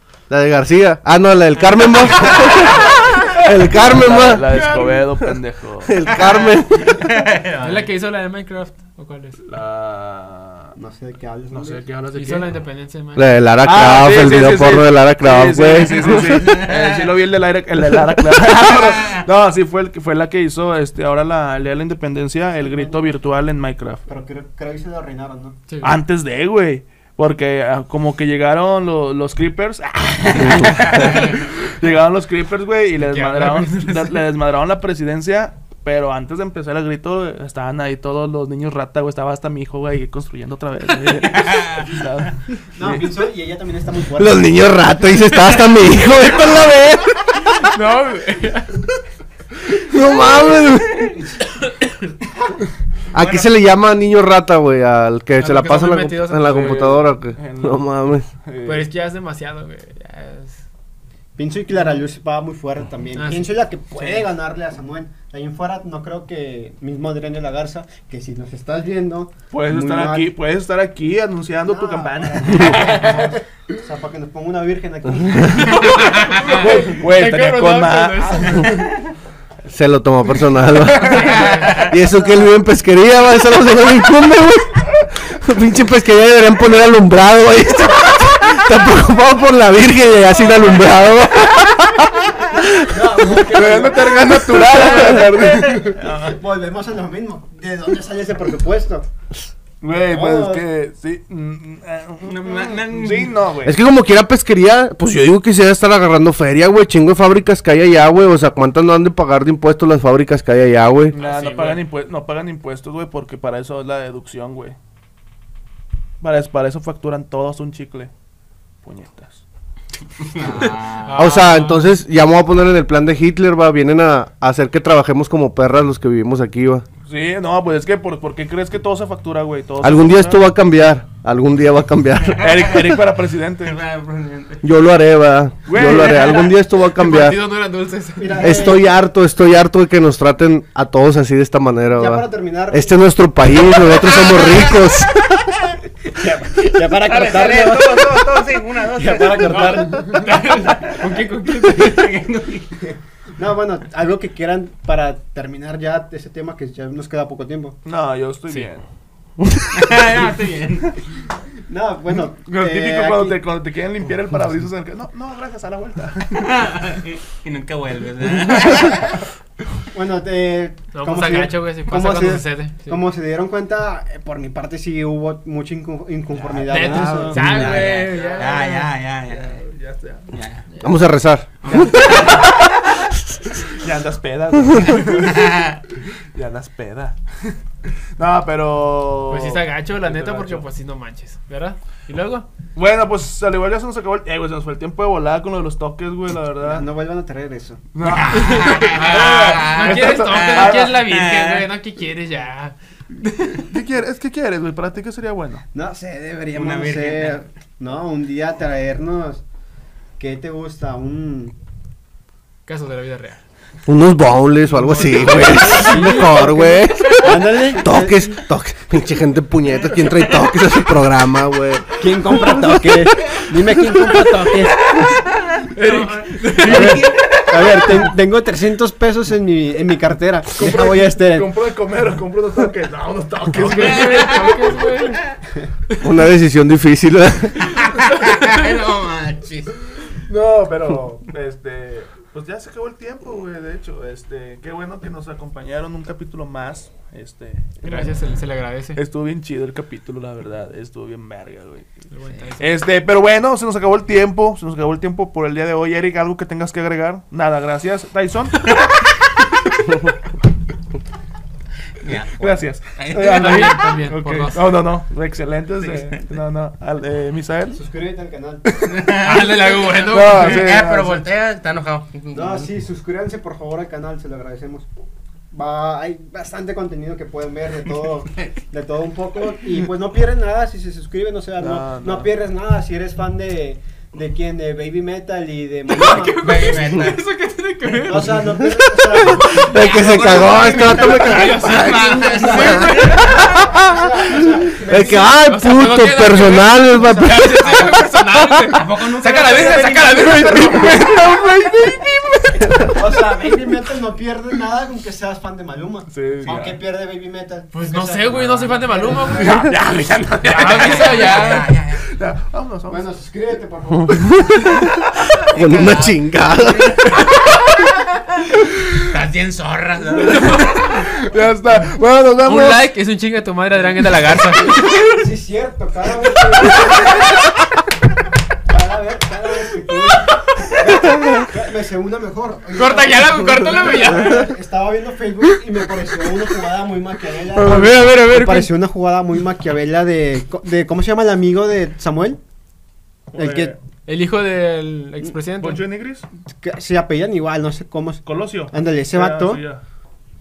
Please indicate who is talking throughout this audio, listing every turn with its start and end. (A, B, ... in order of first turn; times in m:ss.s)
0:00.3-0:04.6 A
0:01.7-0:03.1 B
0:03.4-0:06.0 C
0:04.5-0:04.8 D
0:05.8-0:07.0 A
0:06.1-0:07.9 B
0:07.6-0:09.4 D
0:09.4-0:10.7 C
0:10.8-0:11.8 E
0:11.5-0:12.5 C
0:12.1-0:13.4 D
0:13.1-0:16.4 A
0:13.6-0:24.0 C
0:16.0-0:17.1 B
0:22.6-0:23.1 E
0:24.1-0:25.6 E
0:25.7-0:26.0 D
0:25.8-0:43.0 C
0:31.0-0:31.3 B
0:33.0-0:34.2 D
0:41.3-0:41.8 B
0:42.8-0:44.5 E
0:44.2-0:47.2 A
0:47.4-0:48.8 D
0:49.8-0:51.2 A
0:51.6-0:51.9 D
0:53.1-0:53.5 B
0:53.1-0:58.3 A
0:55.4-0:56.8 D
0:56.5-0:57.8 C
0:58.4-0:58.8 C
0:58.6-1:00.6 D
1:01.4-1:10.3 E
1:01.7-1:02.0 D
1:03.2-1:03.5 D
1:09.5-1:13.4 C
1:11.6-1:16.0 E
1:15.6-1:18.9 D
1:16.5-1:18.9 C
1:19.7-1:33.0 A
1:20.7-1:21.6 C
1:21.0-1:21.9 D
1:32.9-1:39.0 E
1:33.5-1:36.4 C
1:39.8-1:43.8 C
1:40.0-1:40.7 E
1:42.2-1:43.4 B
1:43.6-1:51.1 A
1:51.1-1:54.8 C
1:51.2-1:51.8 B
1:56.2-1:58.1 C
1:58.8-1:59.4 C
2:00.3-2:01.3 B
2:01.0-2:01.9 D
2:01.1-2:06.8 A
2:07.1-2:10.4 C
2:09.8-2:12.4 A
2:12.4-2:12.7 B
2:12.4-2:13.8 C
2:13.6-2:14.7 B
2:14.6-2:17.4 A
2:15.7-2:16.5 C
2:15.9-2:16.4 B
2:17.0-2:18.7 D
2:18.2-2:18.8 E
2:18.4-2:25.2 A
2:21.9-2:22.9 E
2:24.0-2:24.7 B
2:26.1-2:30.3 E
2:26.9-2:30.9 B
2:29.4-2:32.2 D
2:31.6-2:32.8 B
2:33.4-2:37.8 E
2:37.8-2:38.8 C
2:39.7-2:41.0 B
2:41.7-2:43.4 E
2:42.2-2:46.9 C
2:46.3-2:49.1 B
2:49.9-2:57.6 E
2:50.9-2:53.0 D
2:56.3-2:59.6 B
2:56.6-2:58.8 D
2:57.7-3:00.3 C
3:00.3-3:00.8 B
3:00.8-3:01.9 A
3:01.6-3:02.6 B
3:03.8-3:05.8 C
3:05.0-3:05.8 B
3:06.3-3:07.5 C
3:08.2-3:10.7 C
3:09.3-3:12.5 D
3:12.7-3:16.9 C
3:16.6-3:17.8 E
3:17.9-3:21.0 C
3:18.0-3:21.7 B
3:18.6-3:23.7 D
3:23.6-3:25.6 C
3:25.7-3:29.4 E
3:26.5-3:27.4 B
3:30.2-3:31.5 E
3:32.6-3:33.4 D
3:33.8-3:41.8 A
3:34.8-3:36.1 D
3:34.9-3:38.2 E
3:37.0-3:37.3 B
3:42.0-3:45.2 E
3:44.2-3:44.5 D
3:44.9-3:48.1 B
3:45.7-3:47.0 D
3:46.6-3:51.5 E
3:50.5-3:54.7 C
3:53.6-3:55.3 D
3:54.0-3:54.5 B
3:56.0-3:57.6 A
3:58.1-3:59.7 B
4:00.1-4:08.3 C
4:07.8-4:09.0 D
4:08.9-4:11.9 C
4:12.1-4:12.8 D
4:12.6-4:18.7 C
4:22.0-4:23.8 B
4:22.3-4:27.8 C
4:23.3-4:24.6 D
4:25.8-4:26.2 B
4:27.8-4:29.2 E
4:28.8-4:32.7 B
4:29.1-4:30.8 D
4:30.0-4:31.2 C
4:32.3-4:34.9 E
4:35.5-4:46.8 E
4:41.6-4:42.3 C
4:45.9-4:48.4 D
4:46.3-4:47.2 B
4:48.0-4:50.3 E
4:48.2-4:48.6 A
4:49.3-4:53.8 A
4:49.7-4:53.3 B
4:50.9-4:53.7 D
4:52.5-4:55.5 E
4:54.9-4:57.8 A
4:54.9-5:02.1 D
4:58.7-5:01.0 B
5:01.2-5:01.5 A
5:02.8-5:09.7 E
5:06.1-5:06.8 C
5:07.7-5:09.7 D
5:09.3-5:13.1 C
5:10.4-5:11.7 D
5:10.5-5:12.1 B
5:12.9-5:14.8 E
5:15.5-5:17.1 A
5:15.5-5:17.1 B
5:19.0-5:20.9 B
5:20.2-5:22.8 C
5:20.4-5:20.7 D
5:22.4-5:25.2 D
5:25.2-5:27.4 E
5:28.7-5:42.4 E
5:32.8-5:34.5 D
5:37.5-5:38.7 D
5:43.3-5:43.7 E
5:43.3-5:43.8 C
5:44.0-5:45.8 D
5:45.6-5:46.3 C
5:46.6-5:49.6 E
5:48.2-5:49.8 C